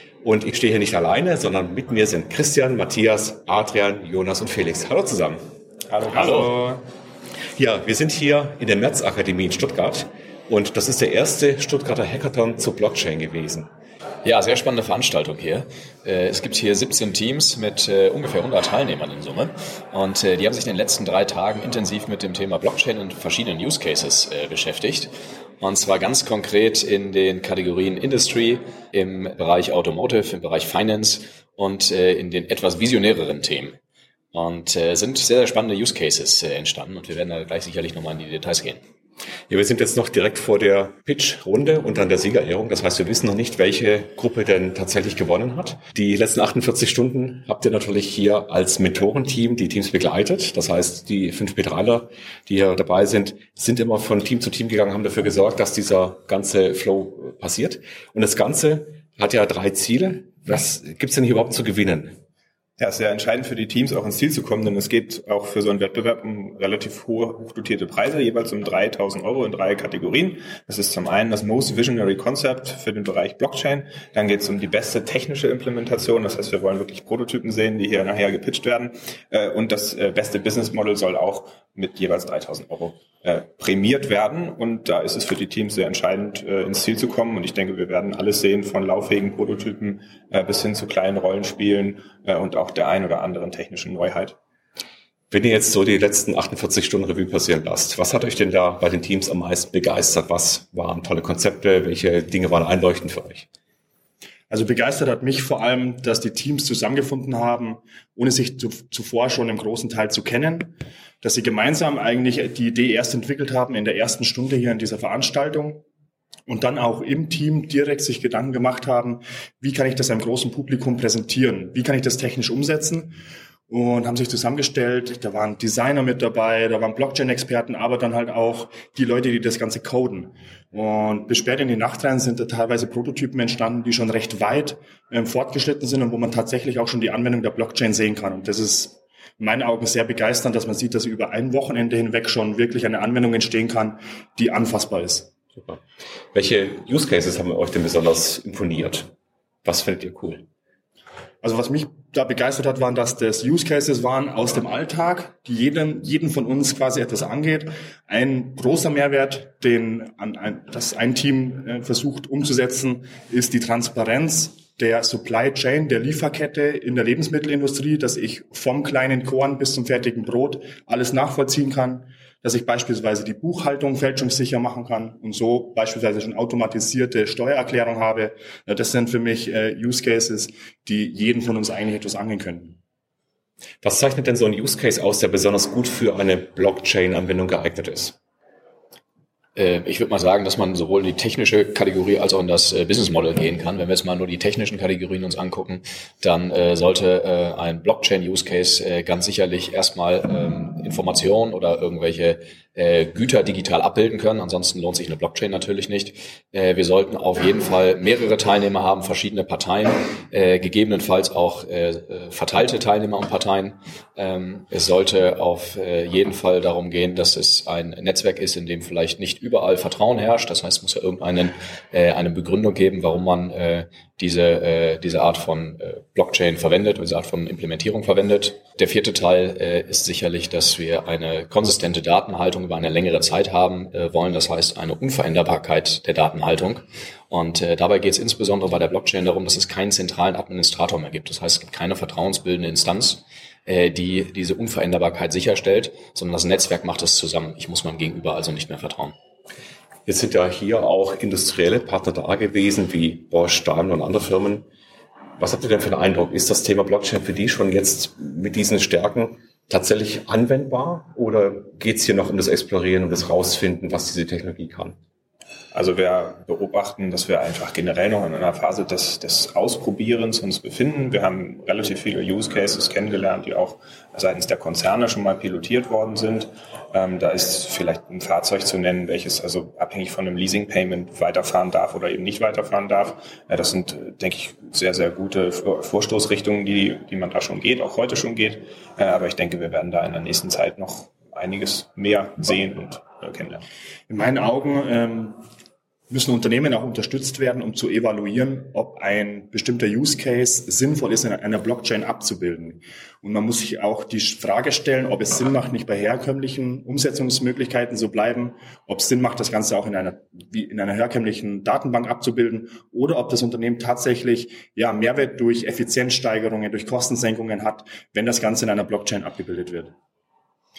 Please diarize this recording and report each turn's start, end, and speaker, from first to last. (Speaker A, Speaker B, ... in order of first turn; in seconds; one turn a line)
Speaker A: 0.2-5.4
Speaker B: 5.9-6.8
Speaker C: 6.1-6.5
Speaker A: 7.6-13.7
Speaker C: 14.2-33.8
Speaker C: 34.3-38.8
Speaker A: 39.5-62.1
Speaker B: 62.8-94.4
Speaker A: 95.3-103.5
Speaker D: 104.5-115.8
Speaker D: 116.5-123.2
Speaker D: 123.7-145.3
Speaker A: 145.6-145.8
Speaker A: 146.3-149.1
Speaker A: 149.6-150.4
Speaker D: 151.4-182.8
Speaker A: 183.8-188.2
Speaker C: 189.6-249.1
Speaker A: 250.1-254.7
Speaker A: 255.4-265.0
Speaker B: 265.7-293.6
Speaker D: 294.1-295.4
Speaker D: 296.1-319.9